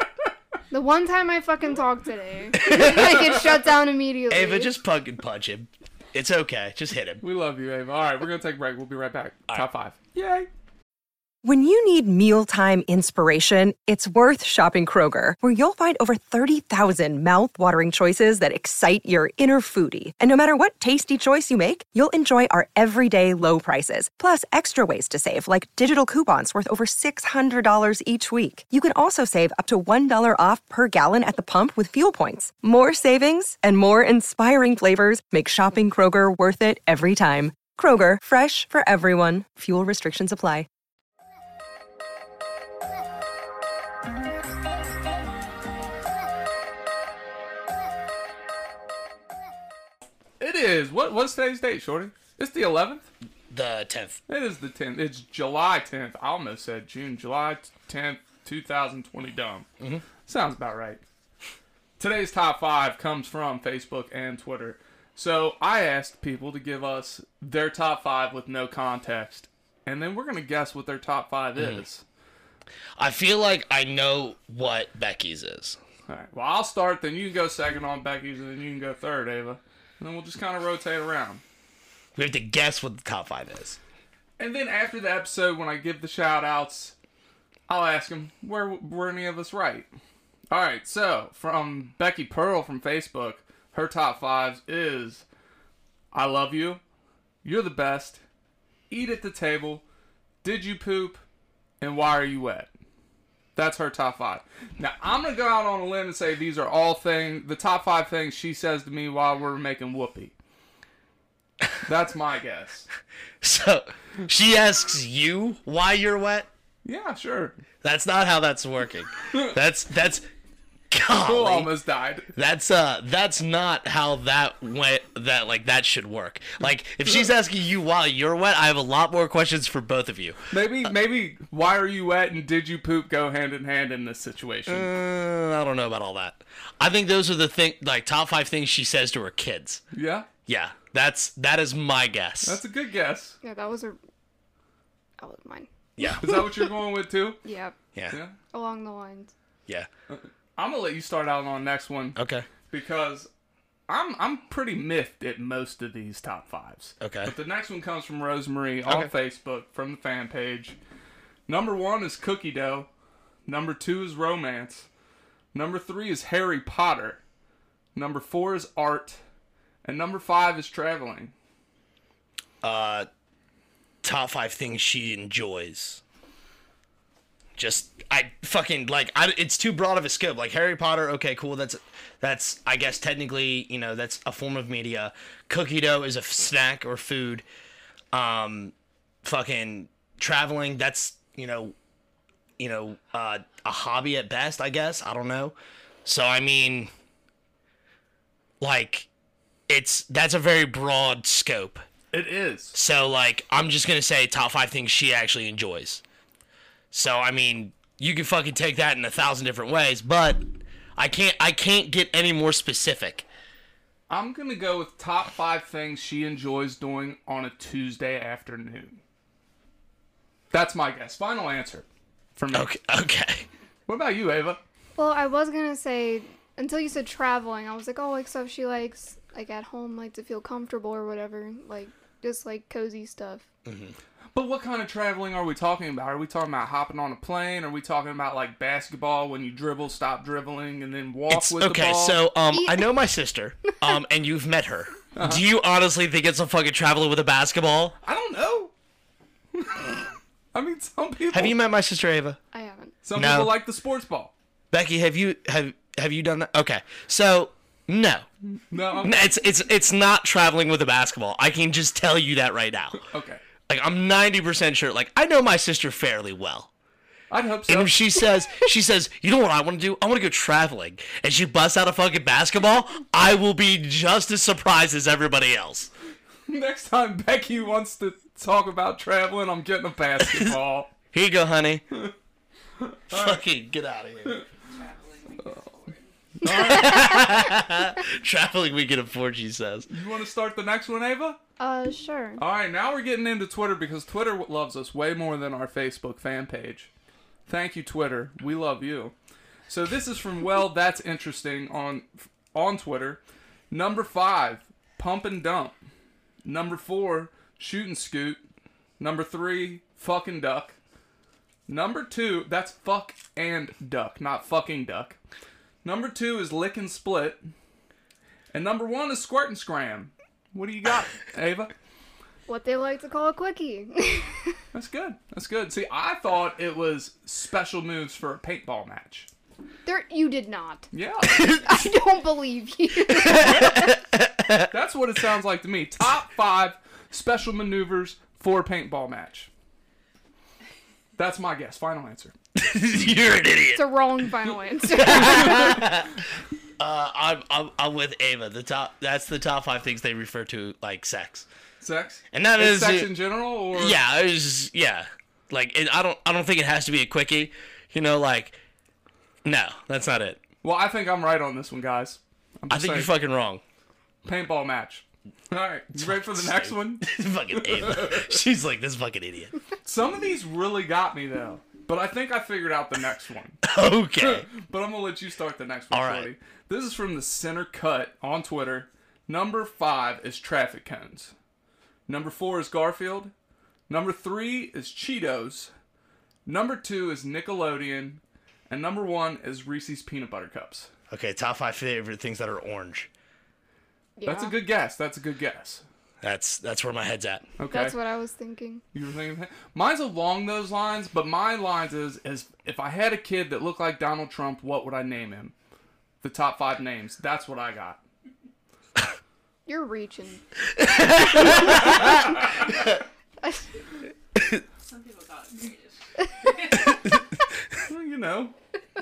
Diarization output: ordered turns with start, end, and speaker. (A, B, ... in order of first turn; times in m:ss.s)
0:00.7-0:04.7 A
0:02.6-0:03.4 B
0:02.7-0:03.1 C
0:04.3-0:07.2 B
0:07.2-0:10.5 C
0:11.4-0:40.7 D
0:50.4-0:53.1 C
0:53.5-0:54.2 B
0:54.3-0:59.6 C
1:00.2-1:01.0 C
1:02.0-1:12.0 C
1:11.6-1:11.8 B
1:13.0-1:15.8 B
1:16.1-1:21.4 C
1:22.2-1:23.8 B
1:24.4-1:26.9 C
1:27.7-1:29.9 C
1:30.5-1:35.2 C
1:36.1-1:36.8 C
1:37.4-1:38.2 C
1:38.9-1:39.8 C
1:40.4-1:41.2 C
1:41.8-1:42.7 C
1:43.6-1:50.3 C
1:51.8-1:52.9 C
1:53.4-1:56.5 B
1:56.8-1:57.6 C
1:57.8-2:00.2 B
2:00.9-2:01.7 B
2:01.2-2:02.3 C
2:02.3-2:10.5 B
2:10.5-2:14.9 C
2:14.7-2:19.8 B
2:19.9-2:20.3 C
2:20.4-2:22.6 B
2:22.4-2:23.4 C
2:23.4-2:24.0 A
2:25.2-2:26.6 A
2:26.0-2:26.4 B
2:26.0-2:27.4 C
2:27.4-2:27.8 A
2:28.1-2:28.3 C
2:28.5-2:29.3 A
2:30.1-2:32.2 C
2:32.2-2:32.4 B
2:32.7-2:33.3 C
2:33.9-2:40.8 C
2:37.0-2:37.3 B
2:38.8-2:39.1 B
2:41.5-2:42.9 C
2:43.4-2:44.9 C
2:45.5-2:47.2 C
2:47.9-2:49.2 C
2:49.8-2:51.3 C
2:52.6-2:53.1 B
2:54.0-2:56.0 B
2:57.6-3:07.4 B
3:08.1-3:11.7 B
3:12.6-3:16.9 B
3:18.6-3:19.1 B
3:19.7-3:21.9 B
3:22.1-3:22.8 C
3:22.7-3:26.0 B
3:26.9-3:30.4 B
3:31.0-3:33.3 B
3:34.1-3:39.0 C
3:40.5-3:42.7 C
3:42.5-3:43.5 B
3:43.9-3:44.6 C
3:45.0-3:53.4 A
3:53.6-3:54.0 B
3:54.3-4:02.2 C
4:01.3-4:08.0 B
4:02.5-4:02.9 A
4:03.7-4:03.9 A
4:05.2-4:05.4 C
4:08.0-4:08.7 C
4:09.5-4:10.0 C
4:10.5-4:11.6 C
4:11.3-4:12.4 B
4:12.5-4:12.9 A
4:13.0-4:14.3 C
4:13.1-4:13.6 B
4:14.7-4:18.2 B
4:18.7-4:19.3 C
4:19.0-4:23.0 B
4:23.0-4:23.4 C
4:23.7-4:26.7 B
4:27.3-4:28.0 C
4:27.7-4:35.9 B
4:36.5-4:40.9 C
4:41.1-4:41.8 B
4:42.8-4:43.4 C
4:43.1-4:44.4 B
4:44.6-4:46.1 E
4:46.4-4:47.2 C
4:46.4-4:49.9 B
4:49.9-4:51.4 C
4:51.6-4:52.4 A
4:52.4-4:56.9 C
4:57.5-4:59.1 C
4:59.7-5:05.7 C
5:06.4-5:08.4 C
5:09.0-5:10.8 C
5:11.7-5:15.2 C
5:15.8-5:17.4 C
5:18.5-5:21.7 C
5:22.5-5:24.5 A
5:24.7-5:29.3 C
5:29.8-5:30.9 A
5:30.9-5:31.6 C
5:31.3-5:31.7 B
5:31.5-5:33.9 A
5:33.1-5:34.7 B
5:34.7-5:39.5 C
5:41.2-5:42.3 C
5:42.5-5:44.0 B
5:43.8-5:45.9 A
5:44.9-5:46.2 B
5:45.1-5:45.8 C
5:46.8-5:51.4 B
5:51.8-5:54.0 C
5:52.3-5:53.1 B
5:53.7-5:58.6 B
5:59.4-6:00.4 B
6:00.6-6:03.1 C
6:02.7-6:03.6 B
6:04.2-6:08.4 C
6:05.9-6:09.5 B
6:09.8-6:13.6 C
6:13.6-6:14.4 B
6:14.2-6:21.3 C
6:15.9-6:16.3 B
6:22.1-6:23.3 C
6:23.9-6:25.7 C
6:26.4-6:30.9 C
6:31.1-6:33.1 B
6:34.2-6:34.5 A
6:34.2-6:35.8 C
6:36.2-6:37.4 B
6:37.6-6:38.0 C
6:37.7-6:38.8 A
6:38.9-6:45.5 C
6:46.2-6:48.0 C
6:49.6-6:50.4 A
6:50.8-6:53.0 B
6:51.4-6:52.1 A
6:51.7-6:52.4 C
6:54.4-6:54.6 B
6:54.8-6:57.1 E
6:57.8-6:58.5 C